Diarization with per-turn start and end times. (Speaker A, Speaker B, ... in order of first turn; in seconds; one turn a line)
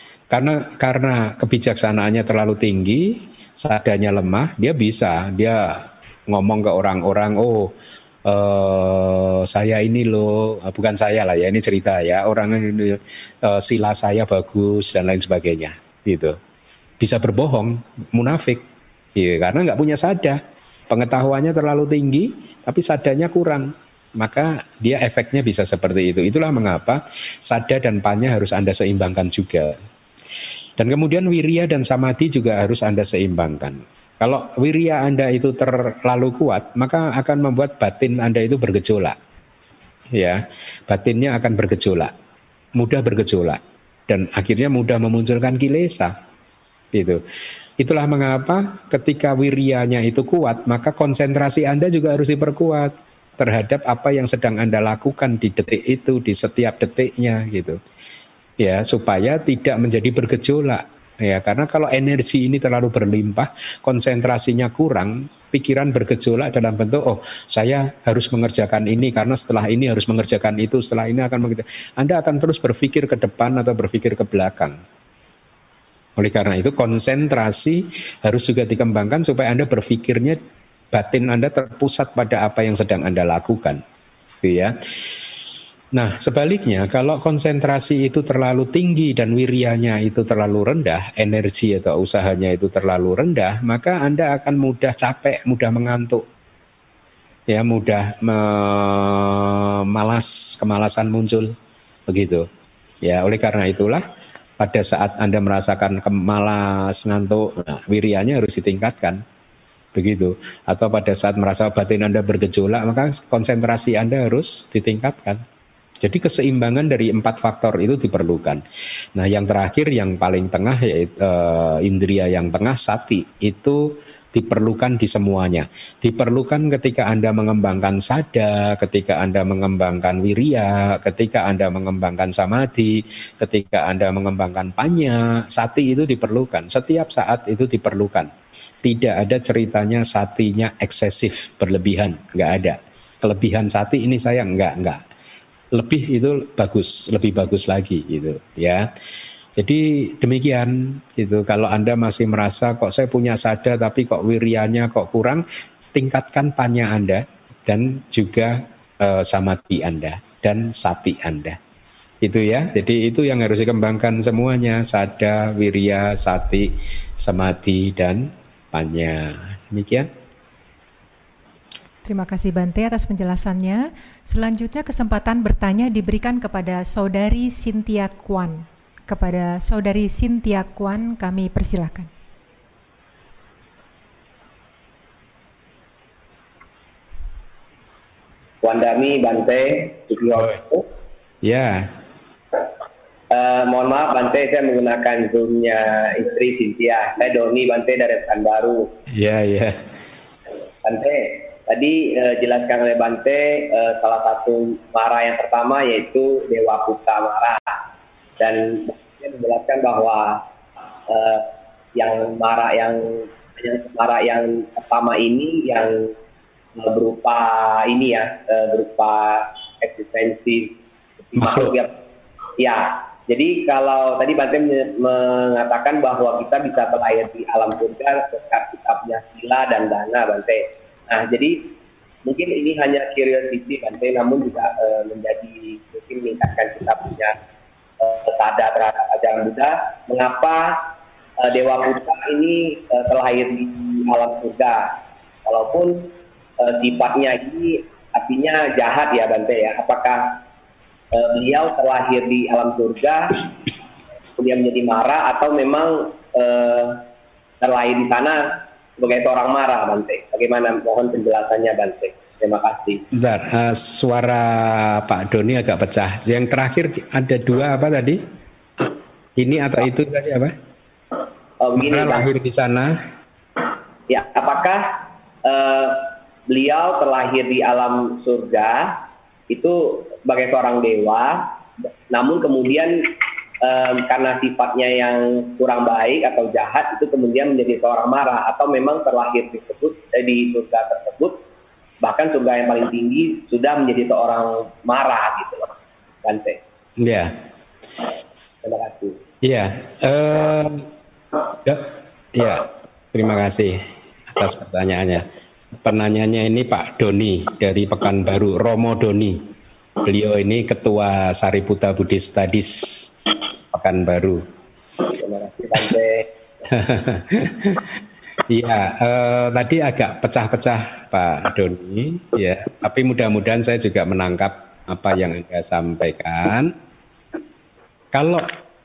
Speaker A: 0.3-7.7
Speaker A: 8.3-16.4
Speaker A: 17.0-18.6
Speaker A: 19.1-29.8
Speaker A: 30.8-39.2
Speaker A: 40.1-42.1
Speaker A: 42.8-46.1
Speaker A: 46.9-47.2
Speaker A: 47.8-57.8
Speaker A: 58.6-74.8
Speaker A: 76.2-80.4
Speaker A: 80.9-83.8
Speaker A: 84.4-84.7
Speaker A: 85.9-96.2
Speaker A: 97.5-101.5
Speaker A: 102.1-102.5
Speaker A: 103.0-104.0
Speaker A: 104.6-109.2
Speaker A: 109.9-115.4
Speaker A: 116.0-118.6
Speaker A: 119.2-138.3
Speaker A: 138.8-145.0
Speaker A: 145.7-148.8
Speaker A: 149.6-155.4
Speaker A: 155.9-161.6
Speaker A: 162.2-170.1
Speaker B: 172.0-182.1
Speaker C: 188.6-190.8
Speaker A: 191.4-191.9
Speaker C: 193.3-198.9
Speaker A: 199.1-199.8
Speaker C: 200.8-207.8
Speaker C: 208.4-210.4
Speaker C: 211.1-216.1
Speaker C: 216.8-220.7
Speaker C: 221.3-221.9
Speaker A: 221.3-221.8
Speaker C: 222.6-231.6
Speaker C: 232.2-237.3
Speaker C: 238.0-240.8
Speaker C: 241.4-244.9
Speaker C: 245.4-250.4
Speaker C: 251.1-253.5
Speaker C: 254.4-257.0
Speaker C: 257.6-258.4
Speaker C: 259.0-263.0
Speaker A: 263.1-268.2
Speaker A: 268.8-270.5
Speaker C: 271.6-272.3
Speaker A: 271.8-272.9
Speaker C: 274.1-274.8
Speaker C: 275.4-279.0
Speaker C: 279.5-282.9
Speaker C: 283.6-291.4
Speaker C: 292.0-296.6
Speaker A: 297.0-297.3
Speaker C: 298.6-299.2
Speaker A: 299.4-300.9
Speaker A: 301.6-303.8
Speaker A: 304.3-305.2
Speaker A: 305.8-309.4
Speaker A: 310.0-313.1
Speaker A: 313.7-314.4
Speaker C: 315.0-316.3
Speaker A: 316.7-317.9
Speaker A: 318.5-326.7
Speaker A: 328.1-328.5